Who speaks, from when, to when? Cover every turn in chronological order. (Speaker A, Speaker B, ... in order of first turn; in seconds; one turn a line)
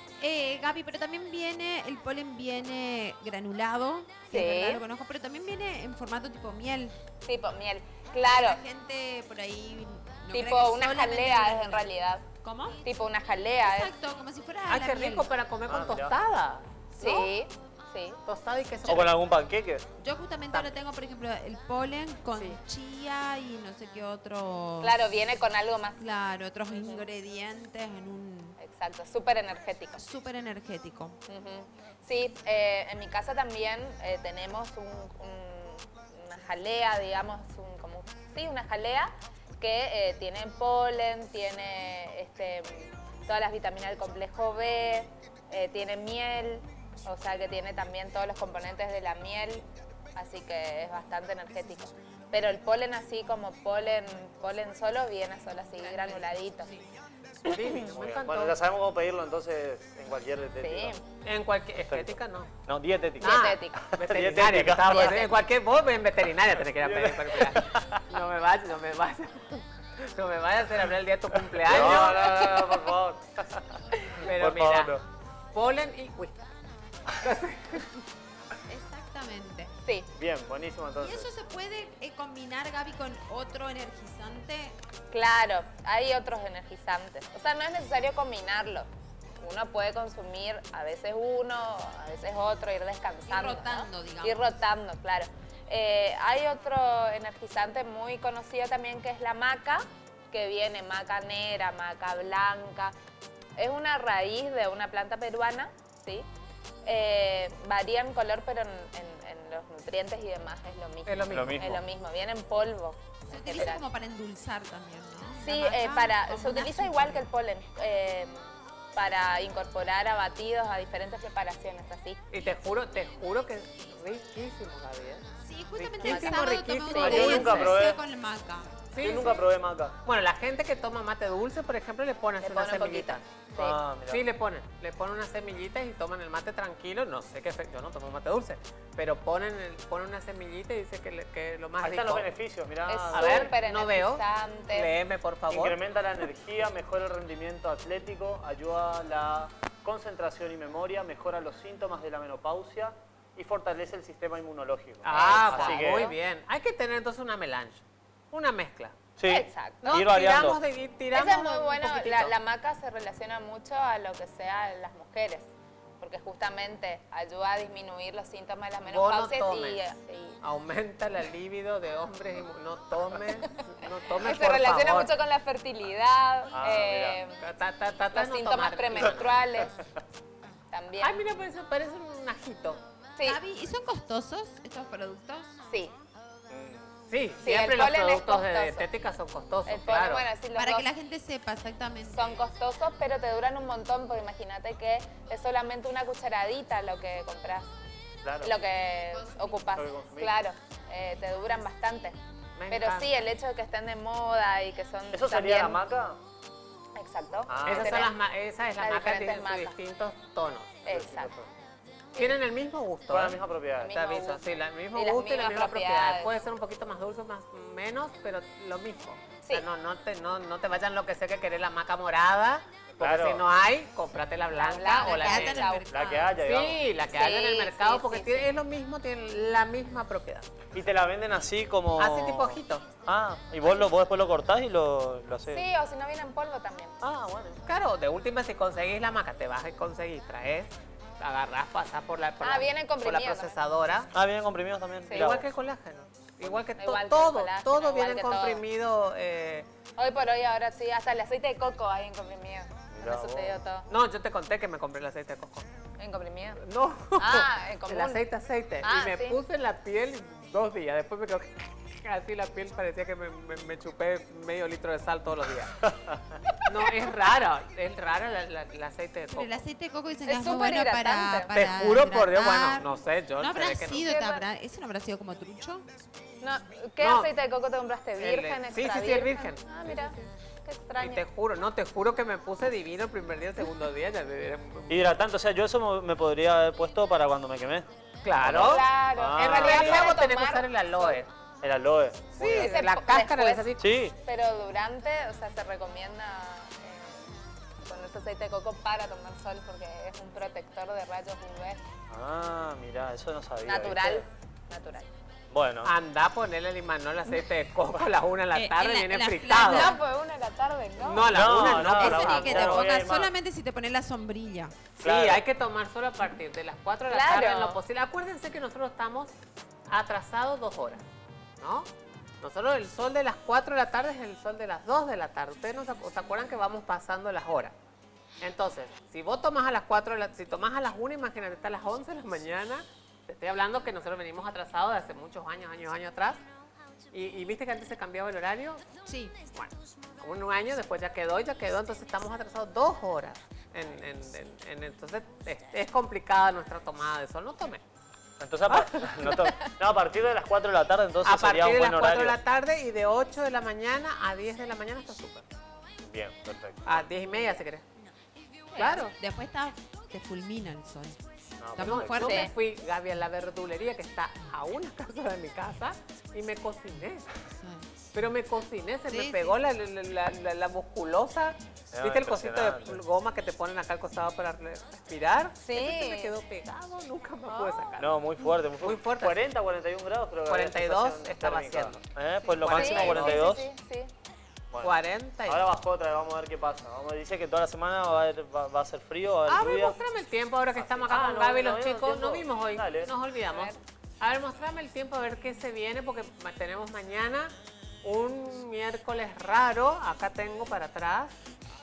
Speaker A: 0.2-7.0
Speaker B: 4.3-4.8
Speaker B: 7.2-8.6
Speaker A: 8.2-11.9
Speaker B: 10.3-12.2
Speaker A: 12.4-12.8
Speaker B: 12.8-13.9
Speaker A: 13.6-15.3
Speaker C: 14.7-16.7
Speaker D: 15.7-16.1
Speaker B: 17.0-18.2
Speaker C: 18.3-19.2
Speaker D: 18.9-19.9
Speaker A: 20.0-24.9
Speaker B: 24.8-26.0
Speaker A: 26.0-28.6
Speaker B: 28.6-30.0
Speaker A: 30.0-31.2
Speaker B: 31.3-56.7
Speaker A: 55.8-56.9
Speaker C: 57.4-58.6
Speaker D: 57.8-60.9
Speaker B: 60.6-61.0
Speaker C: 61.2-62.5
Speaker D: 61.9-65.3
Speaker C: 63.2-72.5
Speaker B: 63.2-63.9
Speaker B: 64.9-65.4
Speaker D: 66.8-68.0
Speaker D: 71.5-75.0
Speaker B: 72.2-72.8
Speaker C: 74.2-75.0
Speaker C: 75.5-76.5
Speaker C: 77.2-78.0
Speaker A: 78.7-79.7
Speaker D: 80.2-81.3
Speaker A: 81.0-84.8
Speaker B: 85.1-88.9
Speaker B: 89.4-102.9
Speaker A: 93.3-94.5
Speaker B: 103.6-106.3
Speaker B: 106.8-113.8
Speaker C: 111.1-111.7
Speaker D: 111.3-111.8
Speaker A: 113.3-117.2
Speaker B: 115.4-122.2
Speaker C: 122.3-125.2
Speaker A: 125.4-128.9
Speaker C: 125.8-127.8
Speaker B: 126.0-127.7
Speaker D: 127.0-128.0
Speaker C: 128.9-129.5
Speaker D: 129.0-129.9
Speaker C: 130.1-133.2
Speaker B: 132.4-133.8
Speaker D: 133.6-134.2
Speaker C: 134.1-142.3
Speaker D: 141.8-143.5
Speaker B: 142.9-144.9
Speaker C: 143.1-145.8
Speaker D: 145.5-156.1
Speaker C: 155.0-158.9
Speaker B: 155.1-156.2
Speaker D: 159.2-160.6
Speaker B: 159.3-159.9
Speaker C: 159.8-162.3
Speaker B: 161.1-170.4
Speaker C: 168.8-169.8
Speaker C: 170.4-175.1
Speaker B: 173.8-177.4
Speaker D: 176.5-177.2
Speaker C: 177.4-179.5
Speaker B: 178.1-179.7
Speaker B: 180.7-181.2
Speaker C: 181.0-182.8
Speaker A: 183.2-185.6
Speaker B: 185.7-185.9
Speaker D: 186.5-186.8
Speaker C: 187.1-190.3
Speaker B: 187.4-188.9
Speaker B: 189.7-190.9
Speaker A: 190.6-192.4
Speaker B: 192.1-197.7
Speaker D: 198.2-198.6
Speaker B: 198.4-202.2
Speaker A: 199.2-199.6
Speaker D: 199.7-200.4
Speaker C: 202.6-203.2
Speaker B: 202.7-205.8
Speaker D: 205.1-206.2
Speaker B: 207.0-208.1
Speaker D: 207.5-208.1
Speaker C: 207.7-210.9
Speaker B: 208.8-209.7
Speaker B: 210.8-211.3
Speaker D: 210.9-211.5
Speaker C: 212.2-225.7
Speaker D: 213.1-213.9
Speaker B: 213.8-216.3
Speaker D: 223.0-223.4
Speaker B: 224.6-225.9
Speaker A: 224.9-226.4
Speaker D: 225.9-226.8
Speaker C: 226.4-230.5
Speaker B: 227.1-228.5
Speaker D: 230.7-235.7
Speaker C: 232.0-232.8
Speaker B: 235.5-236.9
Speaker D: 237.0-237.6
Speaker C: 237.7-244.1
Speaker B: 242.4-243.6
Speaker D: 244.1-245.5
Speaker B: 245.1-245.4
Speaker C: 245.1-249.7
Speaker B: 246.8-248.6
Speaker B: 250.0-253.9
Speaker D: 252.9-253.6
Speaker C: 253.9-255.7
Speaker B: 256.0-256.6
Speaker C: 256.6-265.7
Speaker B: 257.2-258.2
Speaker B: 258.8-259.4
Speaker D: 265.8-266.2
Speaker C: 266.6-269.6
Speaker A: 269.3-275.9
Speaker B: 270.3-271.6
Speaker C: 271.6-274.1
Speaker B: 274.0-274.4
Speaker B: 276.4-281.2
Speaker C: 277.0-277.3
Speaker C: 278.2-280.3
Speaker C: 281.0-285.1
Speaker D: 284.9-287.9
Speaker C: 288.2-291.3
Speaker D: 288.4-290.1
Speaker B: 288.6-291.2
Speaker D: 291.6-292.7
Speaker C: 292.4-293.9
Speaker B: 292.4-301.8
Speaker D: 293.8-294.1
Speaker D: 302.1-304.2
Speaker B: 303.6-305.1
Speaker D: 305.5-305.9
Speaker C: 305.8-310.0
Speaker A: 308.5-310.0
Speaker B: 309.6-311.5
Speaker C: 311.0-312.8
Speaker D: 311.3-313.3
Speaker A: 311.9-314.8
Speaker B: 312.1-312.8
Speaker C: 315.0-319.3
Speaker D: 315.0-315.4
Speaker B: 317.1-317.8
Speaker C: 319.9-321.1
Speaker C: 321.6-321.9
Speaker C: 322.4-327.7
Speaker C: 328.4-336.4
Speaker C: 337.1-338.8
Speaker A: 339.1-339.4
Speaker C: 339.5-347.8
Speaker D: 348.4-352.4
Speaker C: 348.7-349.5
Speaker C: 351.2-355.5
Speaker D: 356.0-357.1
Speaker C: 356.9-357.9
Speaker B: 358.7-359.0
Speaker C: 358.8-359.2
Speaker A: 359.0-361.2
Speaker D: 361.6-362.2
Speaker A: 361.7-362.5
Speaker C: 361.8-367.3
Speaker B: 362.2-362.5
Speaker A: 367.5-368.0
Speaker C: 368.1-378.2
Speaker A: 369.1-369.6
Speaker D: 371.9-373.0
Speaker B: 375.6-376.3
Speaker D: 378.0-383.6
Speaker C: 378.8-379.4
Speaker C: 380.5-383.6
Speaker B: 382.7-384.1
Speaker C: 384.8-385.6
Speaker D: 385.5-390.0
Speaker C: 389.5-397.5
Speaker D: 390.8-393.1
Speaker B: 393.5-393.8
Speaker C: 398.0-401.3